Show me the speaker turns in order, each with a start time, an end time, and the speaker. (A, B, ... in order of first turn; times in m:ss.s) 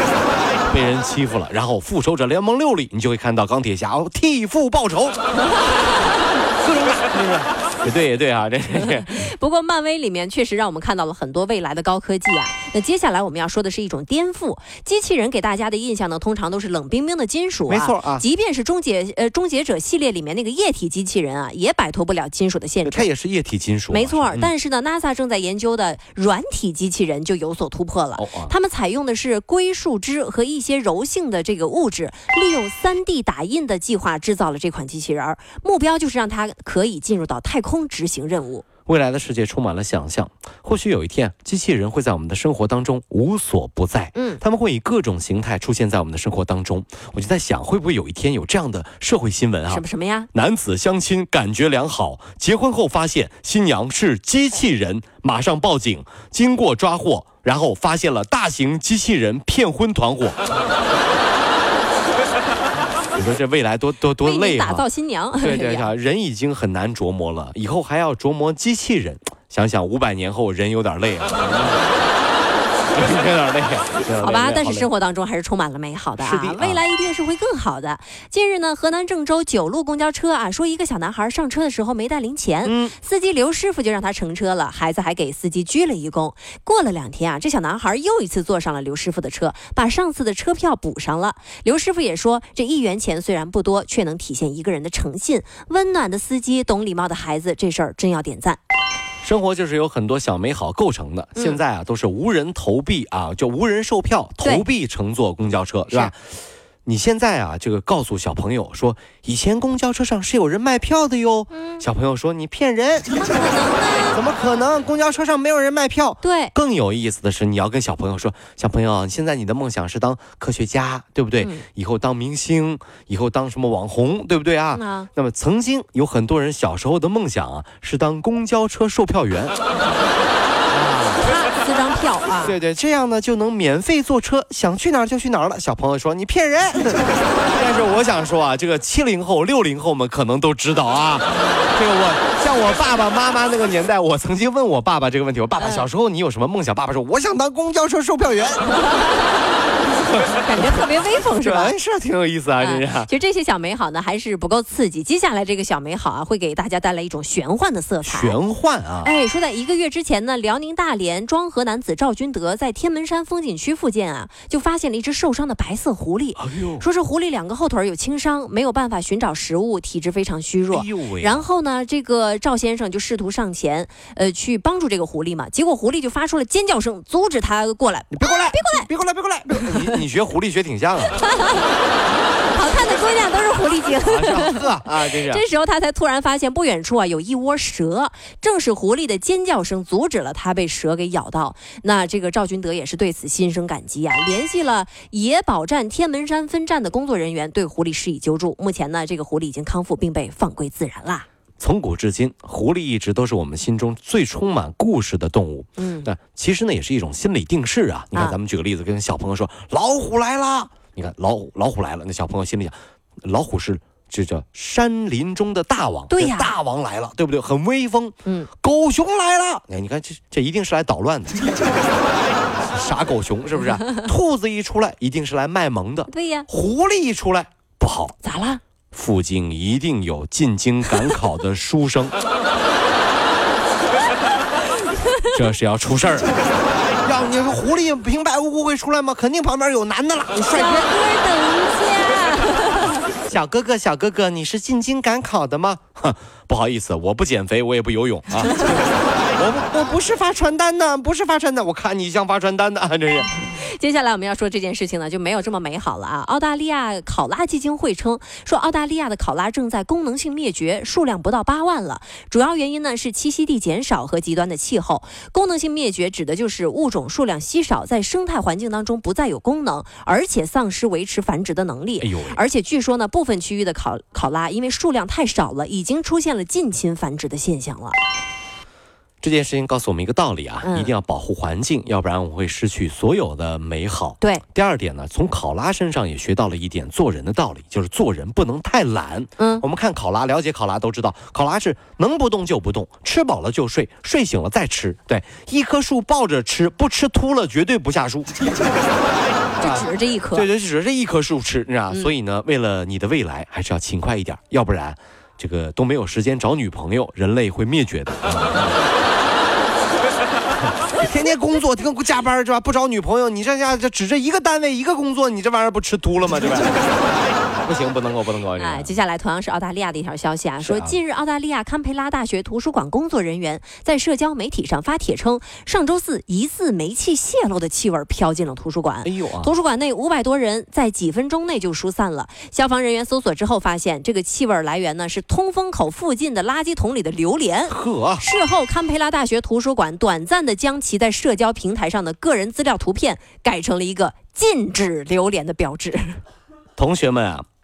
0:00.6-0:05.2 A
0:05.4-0:06.1 B
0:06.6-0:09.3 A
0:08.8-0:23.1 B
0:17.7-0:18.2 A
0:22.8-0:24.5 A
0:23.9-0:38.6 B
0:28.2-0:28.5 A
0:38.8-1:00.4 A
0:44.1-0:44.4 B
0:49.7-0:50.3 B
1:03.1-1:04.8 A
1:04.2-1:05.9 B
1:05.4-1:11.8 A
1:12.9-1:14.9 A
1:14.2-1:38.6 B
1:16.2-1:16.8 A
1:22.6-1:22.9 A
1:39.2-1:46.2 A
1:46.8-1:53.1 A
1:51.5-1:51.8 B
1:53.1-1:54.2 B
1:54.1-2:09.6 A
1:56.2-1:56.5 B
2:04.7-2:05.1 B
2:10.7-2:11.3 A
2:11.2-2:12.6 B
2:12.4-2:28.6 A
2:28.7-2:29.6 B
2:30.0-2:33.1 A
2:30.3-2:31.7 B
2:32.6-2:38.4 B
2:38.0-2:39.1 A
2:39.0-2:58.9 B
2:46.4-2:46.8 A
2:50.7-2:51.4 A
2:58.1-3:01.2 A
2:59.5-3:00.0 B
3:01.1-3:01.8 B
3:02.5-3:21.2 B
3:04.0-3:05.4 A
3:21.6-3:41.4 A
3:25.8-3:26.1 B
3:36.1-3:36.5 B
3:38.2-3:38.5 B
3:42.7-3:48.2 A
3:46.1-3:46.5 B
3:48.2-3:48.6 B
3:48.9-3:52.1 A
3:55.3-3:56.3 A
3:57.0-4:00.9 A
4:00.5-4:03.0 B
4:03.3-4:08.8 A
4:09.4-4:13.3 A
4:13.5-4:38.0 B
4:32.0-4:32.4 A
4:39.2-4:58.3 A
4:40.6-4:40.9 B
4:49.4-4:49.6 B
4:59.6-5:00.5 B
4:59.6-5:08.8 A
5:10.8-5:16.8 A
5:17.6-5:18.9 A
5:18.6-5:46.2 B
5:20.6-5:21.0 A
5:29.0-5:29.5 A
5:37.7-5:38.2 A
5:46.8-5:47.4 A